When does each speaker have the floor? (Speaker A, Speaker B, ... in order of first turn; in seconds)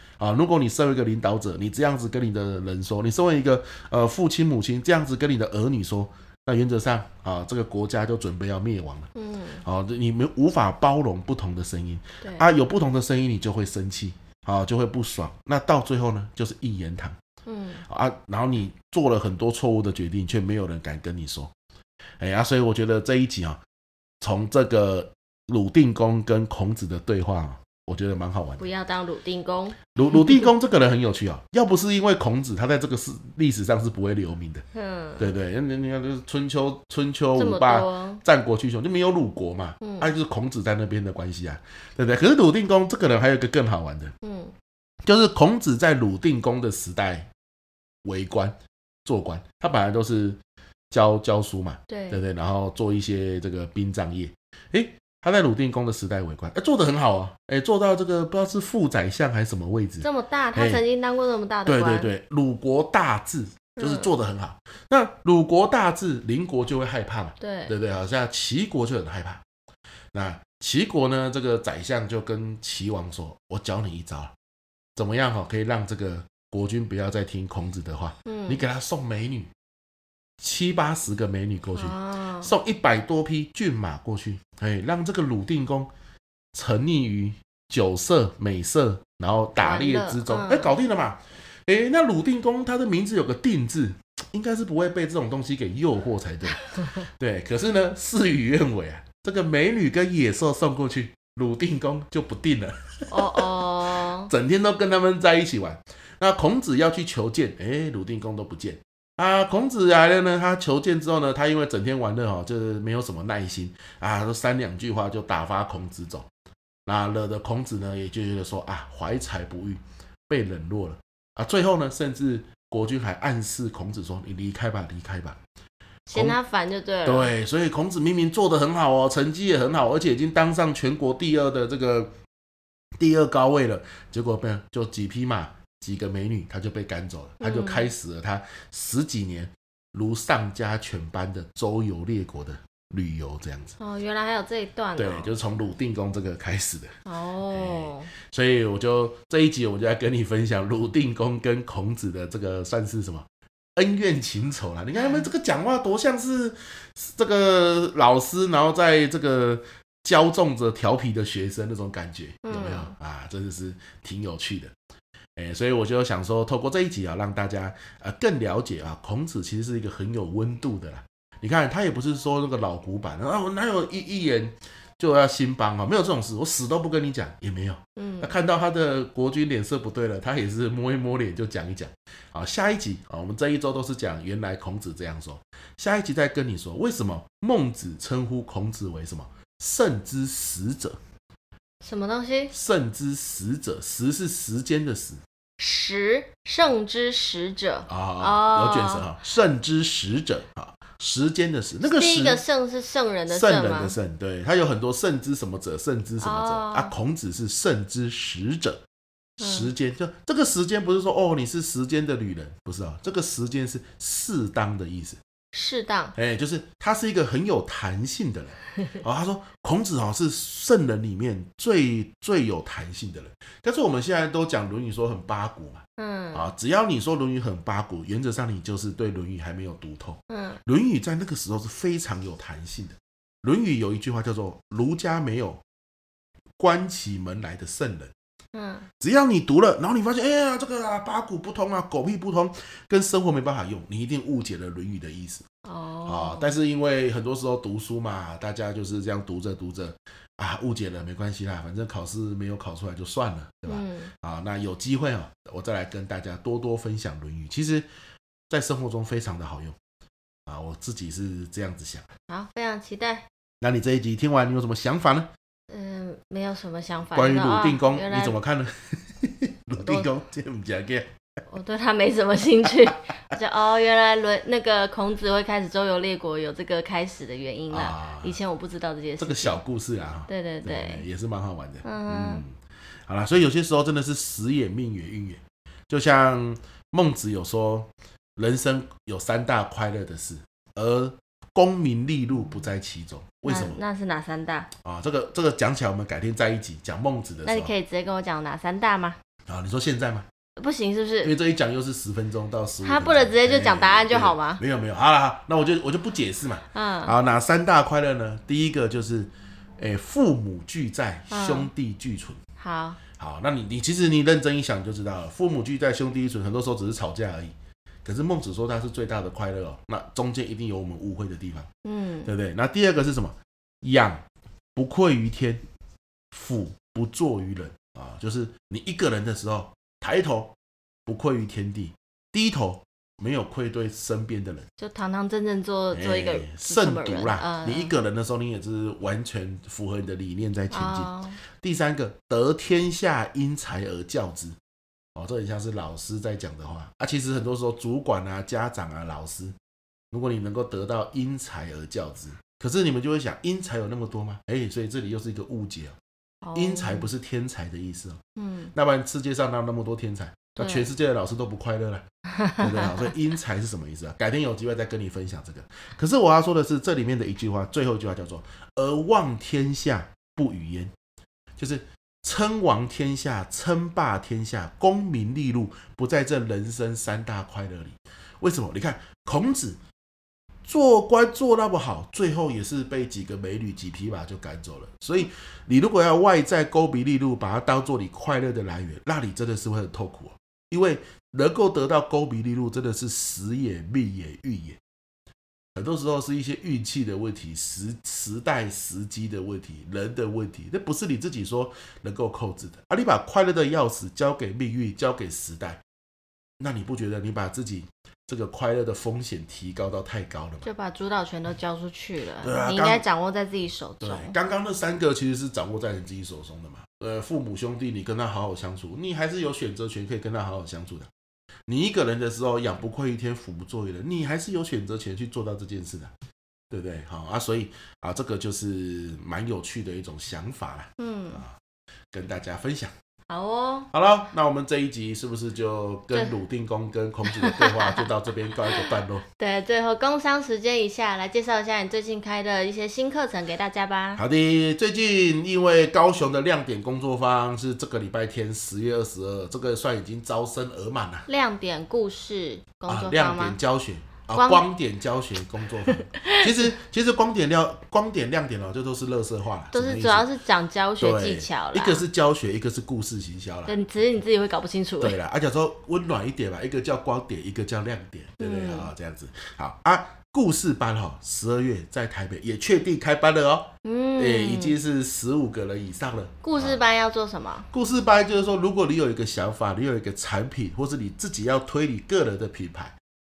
Speaker A: 0.2-9.1, 9.6-17.2, 17.9-21.5, 22.2-23.6, 24.2-28.7, 29.9-34.6, 35.2-44.1, 45.0-47.3, 48.0-50.4, 50.9-60.8, 61.6-69.4, 70.1-74.3, 75.0-79.5, 80.4-85.9, 86.5-103.5, 104.2-116.3, 116.8-125.4, 127.0-132.1, 133.0-143.7, 145.0-146.9, 147.5-164.7, 165.3-191.0, 192.5-195.2, 197.9-202.4, 203.3-208.8, 209.4-215.2, 216.1-235.6, 236.6-238.1, 239.0-245.4, 246.0-257.9, 258.5-259.7, 260.5-262.1, 263.6-265.3, 267.1-271.1, 277.7-278.4, 279.2-282.6, 283.1-293.8, 294.8-297.7, 299.5-300.3, 301.2-312.4, 313.1-321.7, 322.2-324.2, 324.7-325.6, 326.3-330.5, 331.1-334.7, 335.9-344.6, 345.1-349.5, 350.1-355.9, 356.5-358.2, 358.7-362.0, 362.6-370.9, 371.6-379.8, 380.6-394.8, 395.7-405.8, 406.6-410.7, 412.4-413.0, 414.0-421.1, 421.7-426.1, 426.7-431.6, 432.1-432.9, 433.9-439.2, 444.1-451.3, 452.9-460.3, 461.0-463.8, 465.0-476.8, 477.7-482.9
Speaker B: 9.1-9.6, 17.4-17.8, 28.6-29.8, 34.7-35.3, 37.3-38.2, 39.8-40.1, 44.2-44.5, 51.9-52.2, 60.0-62.1, 63.8-64.1, 67.4-67.7, 78.2-78.6, 81.7-82.5, 89.6-90.8, 103.1-104.3, 126.1-127.3, 137.4-137.9, 143.8-145.3, 147.1-148.1, 155.0-155.2, 162.4-162.9, 178.0-178.3, 191.8-192.5, 195.6-199.1, 201.8-203.9, 206.2-206.9, 209.4-209.7, 215.5-216.1, 226.0-226.4, 230.3-230.6, 238.5-238.9, 245.6-246.5, 253.7-254.1, 262.3-263.2, 265.7-268.4, 269.8-270.1, 271.5-279.6, 280.3-281.0, 281.8-282.4, 293.4-294.7, 297.4-299.2, 300.6-301.3, 302.8-304.6, 306.7-307.1, 311.3-311.7, 312.6-313.0, 321.8-322.3, 334.8-337.9, 340.7-341.4, 356.4-357.1, 358.4-358.7, 360.6-360.9, 362.4-363.0, 410.6-414.4, 431.0-431.4, 433.3-433.9, 437.3-438.1, 439.4-444.2, 451.3-453.6, 454.3-454.6, 456.0-456.7, 459.7-462.0, 463.7-465.2, 468.4-468.9, 473.8-474.8, 476.4-477.7